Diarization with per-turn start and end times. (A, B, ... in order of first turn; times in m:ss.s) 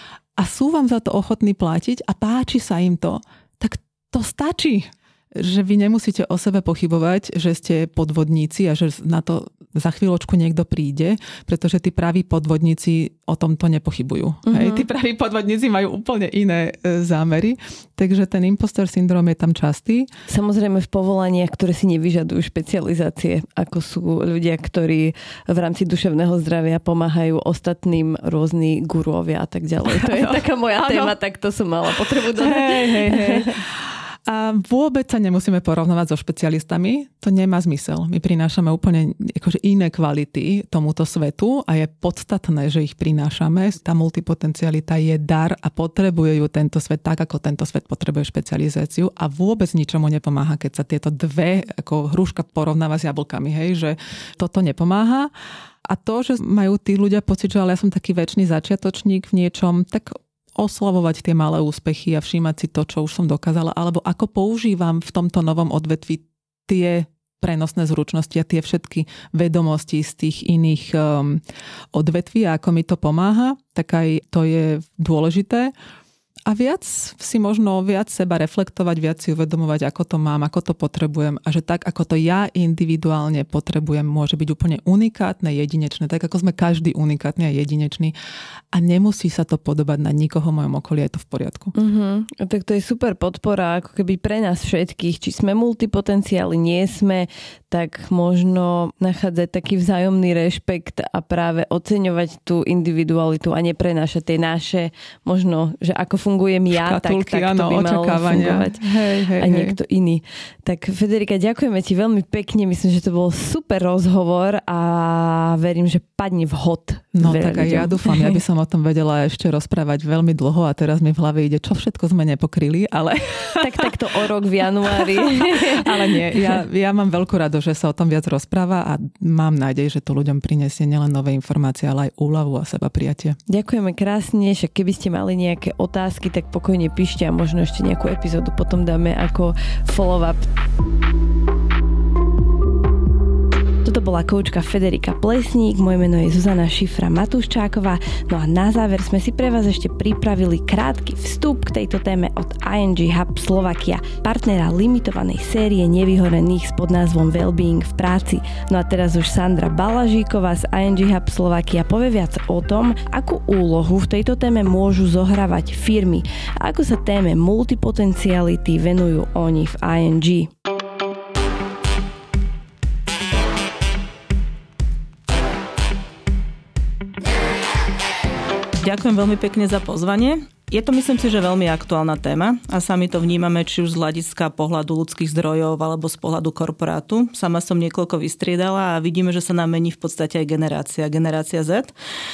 0:00.4-0:20.1 A
0:14.5-0:14.8 B
0:20.3-0:33.5 B
0:29.8-0:31.2 A
0:32.4-0:55.3 A
0:55.9-1:11.4 A
1:11.9-1:15.7 A
1:16.5-1:28.2 A
1:28.7-1:31.7 A
1:31.8-1:58.4 B
1:46.7-1:49.8 A
1:57.1-2:03.9 A
2:03.6-2:06.3 B
2:04.8-2:13.4 A
2:13.5-2:20.5 B
2:23.8-2:50.5 B
2:58.8-3:11.9 C